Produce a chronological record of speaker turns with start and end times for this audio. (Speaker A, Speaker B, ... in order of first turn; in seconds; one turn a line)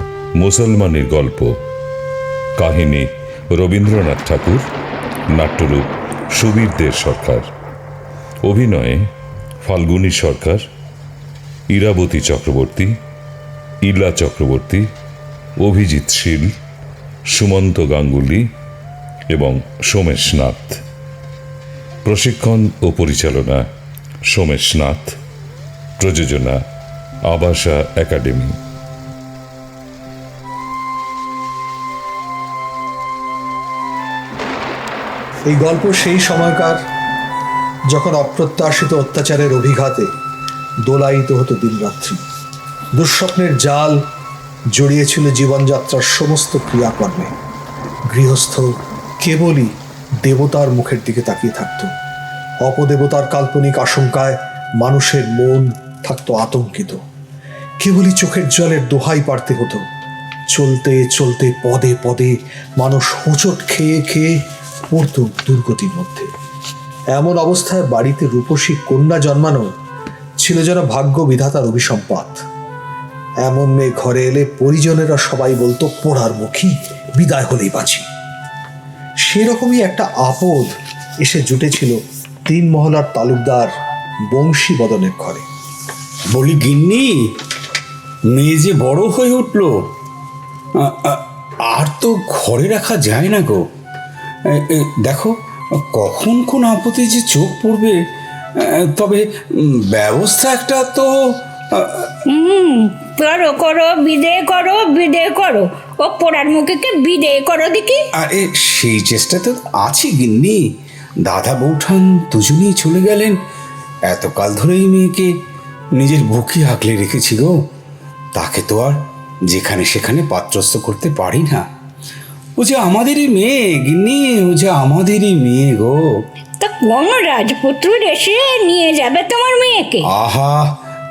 Speaker A: 0.4-1.5
Speaker A: 2.6-4.6
Speaker A: 5.3-7.5
Speaker A: 8.4-9.0
Speaker A: 9.6-10.6
Speaker A: 11.7-12.9
Speaker A: 13.8-14.9
Speaker A: 15.6-16.5
Speaker A: 17.3-18.4
Speaker A: 19.3-20.8
Speaker A: 22.0-23.6
Speaker A: 24.3-25.1
Speaker A: 26.0-26.6
Speaker A: 27.3-28.6
Speaker B: 35.5-36.8
Speaker B: 37.9-40.1
Speaker B: 40.8-42.2
Speaker B: 43.0-44.0
Speaker B: 44.7-47.3
Speaker B: 48.1-48.7
Speaker B: 49.2-49.7
Speaker B: 50.2-51.9
Speaker B: 52.6-57.0
Speaker B: 57.8-59.8
Speaker B: 60.5-64.4
Speaker B: 64.9-66.3
Speaker B: 67.1-69.7
Speaker B: 70.4-72.4
Speaker B: 73.4-78.0
Speaker B: 79.2-83.7
Speaker B: 84.3-85.4
Speaker C: 86.3-87.2
Speaker C: 88.3-89.9
Speaker C: 90.8-93.7
Speaker C: 94.5-95.3
Speaker C: 95.9-98.0
Speaker C: 98.6-99.2
Speaker C: 99.9-101.1
Speaker C: 101.8-102.1
Speaker D: 102.3-108.0
Speaker C: 108.2-110.6
Speaker C: 111.2-113.4
Speaker C: 114.1-115.3
Speaker C: 116.0-117.5
Speaker C: 118.3-121.7
Speaker C: 122.6-126.0
Speaker D: 126.6-130.0
Speaker C: 130.1-130.8